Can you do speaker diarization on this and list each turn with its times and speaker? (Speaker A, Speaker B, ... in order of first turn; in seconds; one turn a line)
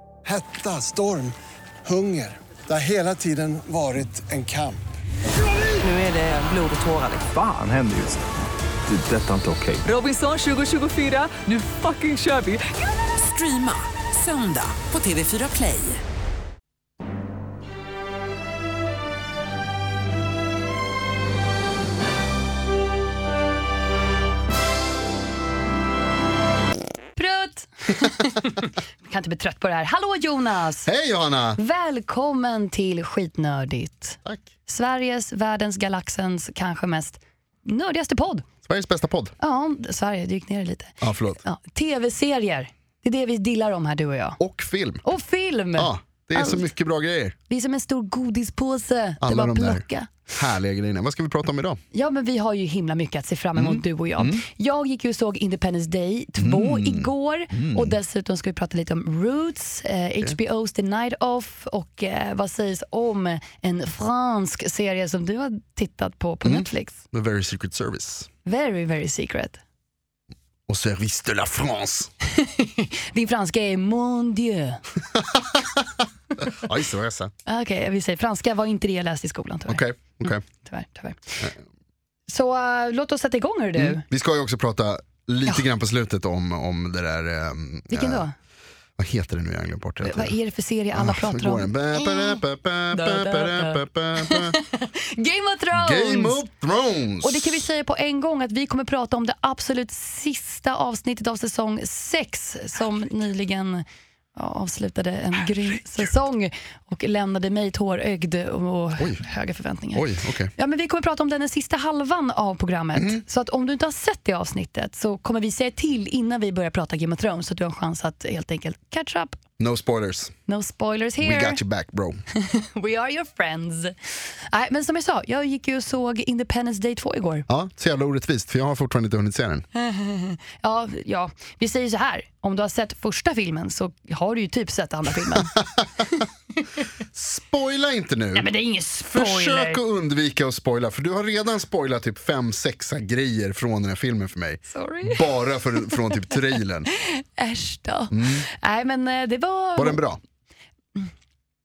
Speaker A: 0.2-1.3
Speaker A: 1.8-4.8
Speaker B: 5.8-7.3
Speaker C: 7.3-8.2
Speaker C: 8.9-9.9
Speaker B: 9.8-16.0
Speaker D: 27.1-30.9
Speaker E: 30.9-31.6
Speaker D: 31.6-38.5
Speaker E: 38.6-39.4
Speaker D: 39.4-44.4
Speaker E: 41.0-41.4
Speaker E: 44.4-45.0
Speaker D: 45.0-46.7
Speaker E: 45.8-47.4
Speaker D: 47.5-50.1
Speaker E: 49.2-51.8
Speaker D: 51.9-67.0
Speaker E: 53.5-54.4
Speaker E: 56.4-58.0
Speaker E: 66.4-68.3
Speaker D: 68.5-69.6
Speaker E: 70.7-72.1
Speaker D: 72.3-74.8
Speaker E: 75.1-77.3
Speaker D: 77.5-79.8
Speaker E: 79.7-80.4
Speaker D: 80.5-81.5
Speaker D: 82.3-84.0
Speaker E: 83.8-88.3
Speaker D: 87.9-88.3
Speaker E: 89.0-90.3
Speaker D: 90.0-92.4
Speaker E: 90.9-94.6
Speaker D: 92.9-96.4
Speaker E: 95.7-97.6
Speaker D: 97.2-110.0
Speaker E: 109.9-110.5
Speaker D: 110.6-119.4
Speaker E: 113.0-113.2
Speaker E: 119.6-120.3
Speaker D: 120.5-121.6
Speaker E: 121.2-122.2
Speaker D: 122.3-124.0
Speaker D: 124.5-127.5
Speaker E: 127.5-129.7
Speaker D: 129.7-135.5
Speaker E: 137.1-138.5
Speaker D: 138.3-139.8
Speaker E: 139.1-146.9
Speaker D: 144.7-145.3
Speaker D: 147.0-150.0
Speaker E: 148.1-148.4
Speaker E: 149.8-150.2